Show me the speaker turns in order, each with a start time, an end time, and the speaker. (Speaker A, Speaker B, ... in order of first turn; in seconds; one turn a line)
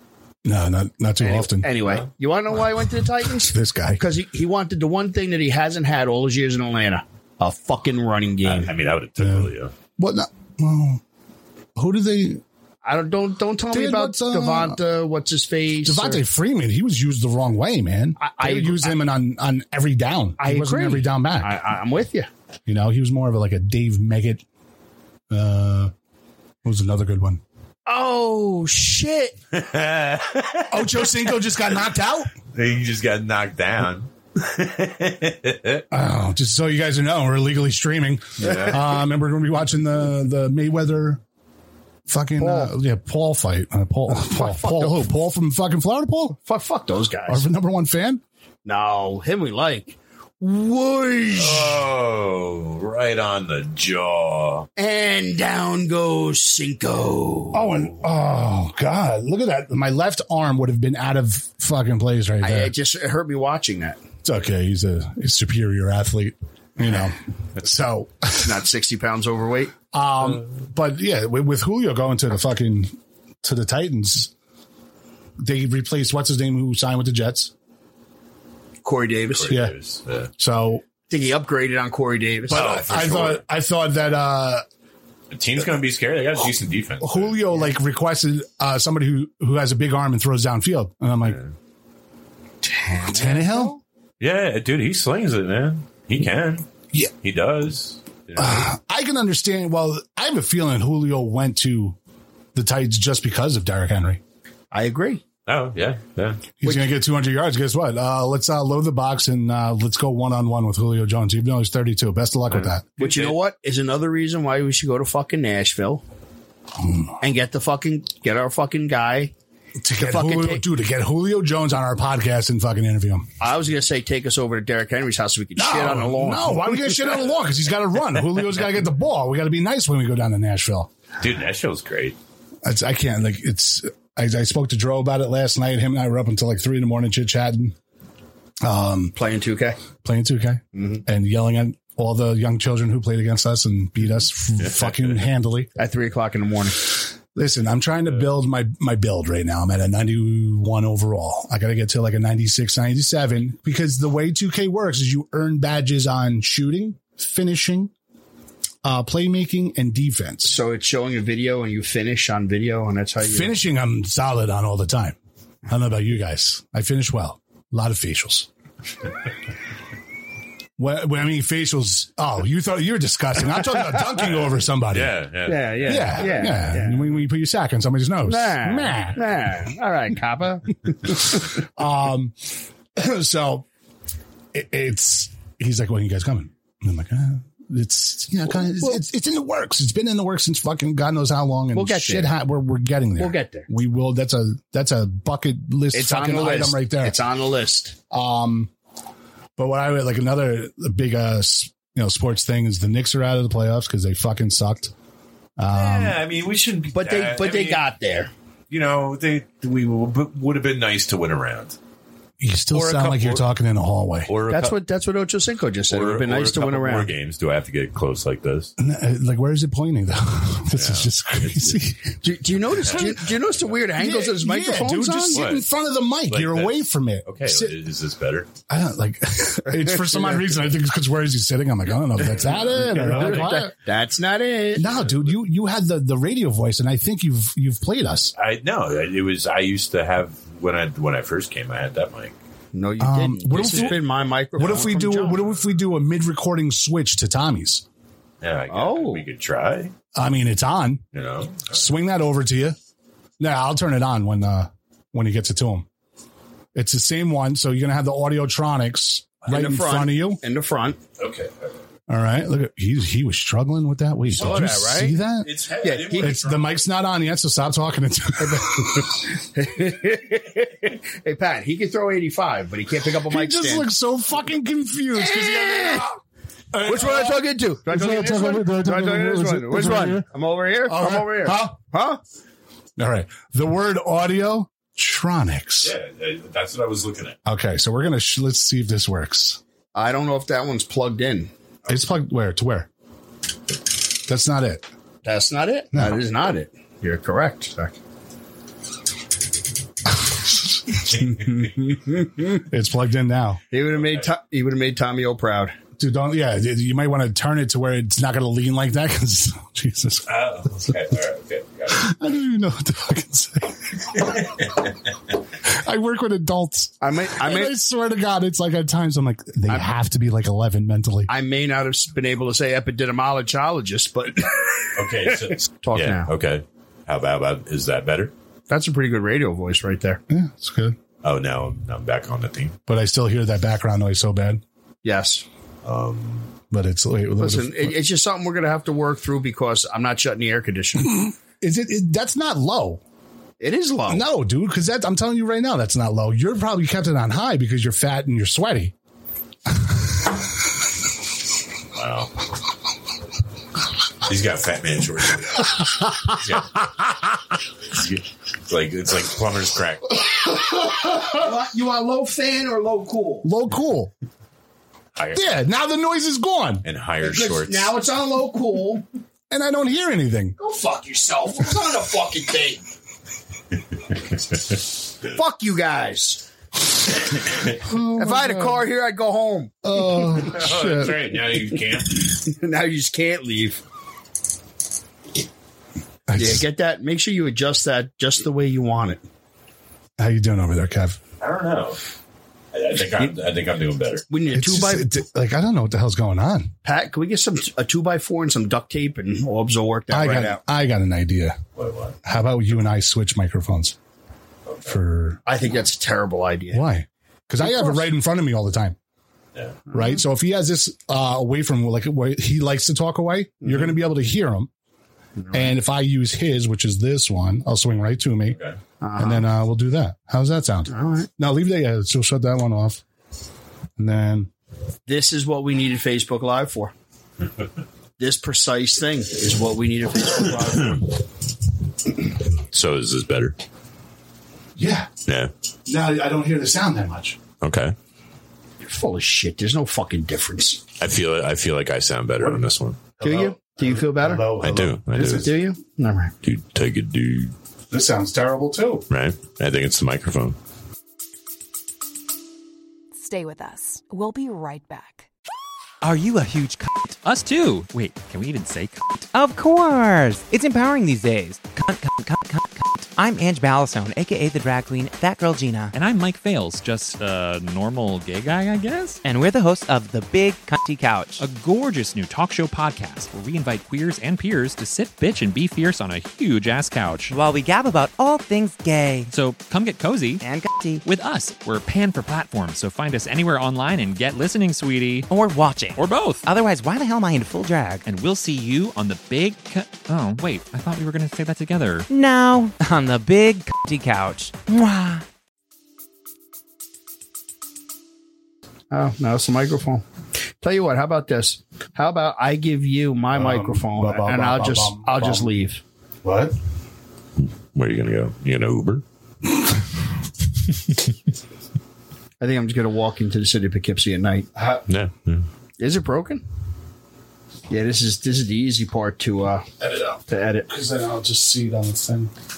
Speaker A: 0.4-1.7
Speaker B: 1.2-8.7
Speaker A: 3.4-4.0
Speaker C: 8.4-9.7
Speaker A: 9.2-11.0
Speaker A: 11.8-12.4
Speaker B: 12.8-16.2
Speaker A: 13.7-14.8
Speaker A: 15.8-21.6
Speaker B: 18.2-18.9
Speaker B: 20.4-22.3
Speaker A: 22.7-24.4
Speaker A: 25.3-25.9
Speaker A: 26.6-27.4
Speaker B: 27.9-29.4
Speaker C: 29.5-31.1
Speaker A: 30.7-32.3
Speaker C: 32.5-35.9
Speaker A: 35.9-41.2
Speaker C: 38.4-38.8
Speaker A: 42.1-46.4
Speaker B: 42.4-42.7
Speaker B: 44.1-45.1
Speaker B: 46.4-47.4
Speaker A: 47.3-48.2
Speaker B: 48.6-51.8
Speaker C: 51.3-54.7
Speaker B: 54.8-57.7
Speaker A: 57.5-62.7
Speaker B: 62.4-64.0
Speaker A: 64.2-68.6
Speaker B: 68.4-69.7
Speaker A: 69.9-74.3
Speaker A: 75.4-77.5
Speaker B: 78.8-79.5
Speaker C: 79.3-80.3
Speaker A: 79.5-79.7
Speaker A: 80.4-80.8
Speaker B: 81.1-82.7
Speaker A: 82.5-84.6
Speaker C: 82.5-83.4
Speaker C: 85.3-87.4
Speaker A: 87.0-91.4
Speaker B: 92.6-93.8
Speaker A: 93.0-93.8
Speaker C: 94.2-96.7
Speaker C: 97.2-98.7
Speaker A: 98.3-102.0
Speaker A: 102.5-104.2
Speaker B: 104.7-105.2
Speaker C: 105.5-106.5
Speaker A: 106.6-112.9
Speaker C: 112.5-113.3
Speaker B: 113.0-116.0
Speaker A: 116.8-117.2
Speaker B: 117.2-119.3
Speaker A: 119.8-123.3
Speaker B: 120.0-120.6
Speaker B: 123.4-126.8
Speaker A: 125.6-130.9
Speaker C: 131.2-132.2
Speaker A: 132.6-137.8
Speaker A: 138.6-139.2
Speaker B: 139.2-139.8
Speaker A: 140.0-145.7
Speaker B: 140.7-141.0
Speaker C: 144.7-145.2
Speaker B: 145.8-146.9
Speaker A: 147.3-157.9
Speaker A: 158.8-160.6
Speaker B: 160.4-163.6
Speaker A: 163.2-165.2
Speaker A: 165.7-168.5
Speaker A: 170.8-175.2
Speaker C: 174.9-176.3
Speaker B: 175.4-177.2
Speaker A: 175.8-179.2
Speaker B: 178.2-181.4
Speaker A: 181.3-183.7
Speaker A: 184.5-197.2
Speaker B: 191.7-192.3
Speaker B: 193.2-193.7
Speaker B: 195.9-198.0
Speaker A: 198.1-198.7
Speaker A: 199.6-204.9
Speaker A: 205.6-206.2
Speaker C: 205.7-207.8
Speaker B: 206.9-208.3
Speaker C: 208.7-211.8
Speaker A: 212.4-214.3
Speaker C: 212.7-213.5
Speaker C: 214.3-214.8
Speaker B: 214.5-217.1
Speaker C: 215.9-218.7
Speaker A: 218.8-222.2
Speaker C: 220.7-221.9
Speaker B: 222.2-225.4
Speaker C: 222.8-223.6
Speaker A: 223.9-227.8
Speaker C: 225.3-225.7
Speaker C: 226.3-228.5
Speaker A: 228.7-233.7
Speaker C: 232.3-233.6
Speaker B: 232.9-235.0
Speaker A: 234.8-238.3
Speaker C: 238.4-242.3
Speaker B: 242.7-245.4
Speaker A: 243.0-244.0
Speaker C: 243.5-243.9
Speaker A: 244.6-247.8
Speaker C: 248.4-249.9
Speaker B: 248.7-249.2
Speaker A: 250.1-251.0
Speaker C: 251.1-251.8
Speaker A: 251.7-252.8
Speaker A: 253.4-255.8
Speaker A: 256.8-260.4
Speaker B: 259.5-261.0
Speaker C: 261.2-261.7
Speaker A: 262.1-265.5
Speaker B: 264.3-265.2
Speaker C: 264.4-266.8
Speaker B: 265.8-266.4
Speaker A: 266.1-269.2
Speaker B: 268.4-273.9
Speaker A: 273.3-276.2
Speaker B: 275.2-276.1
Speaker A: 276.7-280.3
Speaker B: 276.8-282.2
Speaker A: 280.9-281.8
Speaker A: 283.0-285.9
Speaker C: 285.8-287.4
Speaker A: 287.4-289.6
Speaker B: 289.9-291.5
Speaker A: 291.9-292.9
Speaker A: 294.2-294.9
Speaker B: 295.2-298.0
Speaker A: 295.9-296.2
Speaker B: 301.2-302.6
Speaker A: 302.5-303.6
Speaker B: 303.7-305.8
Speaker A: 306.0-311.0
Speaker C: 310.3-312.1
Speaker A: 311.9-314.5
Speaker C: 314.3-314.9
Speaker A: 315.6-321.3
Speaker B: 317.0-317.7
Speaker B: 321.3-326.3
Speaker C: 324.9-328.3
Speaker B: 328.7-330.2
Speaker A: 330.3-330.9
Speaker C: 331.2-332.8
Speaker A: 332.9-334.6
Speaker B: 335.0-335.4
Speaker C: 335.8-336.5
Speaker A: 336.7-338.0
Speaker B: 337.4-341.3
Speaker A: 341.1-343.0
Speaker B: 343.6-344.2
Speaker A: 344.1-348.9
Speaker C: 351.9-352.3
Speaker C: 354.2-356.8
Speaker C: 357.9-360.2
Speaker B: 361.3-363.5
Speaker A: 363.4-364.1
Speaker C: 365.2-365.5
Speaker A: 365.3-366.8
Speaker C: 366.8-367.9
Speaker B: 367.2-369.1
Speaker A: 369.5-370.6
Speaker B: 370.6-372.8
Speaker B: 375.2-376.4
Speaker A: 377.8-378.8
Speaker B: 378.1-380.2
Speaker A: 379.8-381.3
Speaker C: 380.4-382.3
Speaker B: 382.3-383.8
Speaker A: 386.3-386.6
Speaker B: 386.3-389.2
Speaker A: 390.2-391.2
Speaker C: 391.4-392.0
Speaker C: 392.7-394.3
Speaker B: 394.3-395.1
Speaker A: 394.5-396.8
Speaker B: 396.8-400.6
Speaker A: 400.1-401.6
Speaker C: 401.8-402.2
Speaker A: 402.2-403.9
Speaker C: 404.7-404.9
Speaker A: 404.9-405.4
Speaker B: 405.4-406.8
Speaker A: 406.7-408.9
Speaker B: 407.6-408.0
Speaker C: 409.6-409.8
Speaker B: 409.9-410.2
Speaker A: 409.9-414.7
Speaker B: 415.4-415.7
Speaker A: 415.5-418.6
Speaker C: 418.5-418.8
Speaker B: 419.0-419.5
Speaker A: 419.2-423.0
Speaker B: 420.9-421.3
Speaker A: 424.0-424.5
Speaker B: 425.1-426.9
Speaker B: 428.2-431.0
Speaker C: 432.7-433.6
Speaker A: 434.8-435.1
Speaker C: 435.3-435.5
Speaker A: 435.9-437.4
Speaker C: 437.6-437.9
Speaker B: 438.8-440.8
Speaker C: 441.0-443.0
Speaker A: 442.4-442.6
Speaker A: 443.2-445.5
Speaker B: 443.2-444.6
Speaker C: 444.6-445.5
Speaker B: 445.2-446.3
Speaker C: 446.4-447.5
Speaker A: 447.9-449.1
Speaker C: 449.1-450.6
Speaker D: 453.1-455.3
Speaker E: 456.0-457.2
Speaker F: 457.2-459.3
Speaker E: 459.3-465.9
Speaker F: 465.9-469.2
Speaker E: 469.2-471.4
Speaker F: 471.4-477.3
Speaker E: 477.3-479.3
Speaker F: 479.3-480.4
Speaker E: 480.4-481.0
Speaker F: 481.0-485.3
Speaker E: 485.3-488.0
Speaker F: 485.9-486.4
Speaker F: 488.1-492.1
Speaker E: 492.1-495.2
Speaker B: 498.9-500.1
Speaker B: 500.6-505.8
Speaker A: 503.3-505.6
Speaker A: 506.2-506.6
Speaker C: 507.4-509.0
Speaker B: 512.4-514.5
Speaker A: 514.5-514.9
Speaker C: 514.9-515.4
Speaker B: 515.8-516.4
Speaker B: 517.7-519.7
Speaker A: 519.8-522.3
Speaker B: 520.3-520.7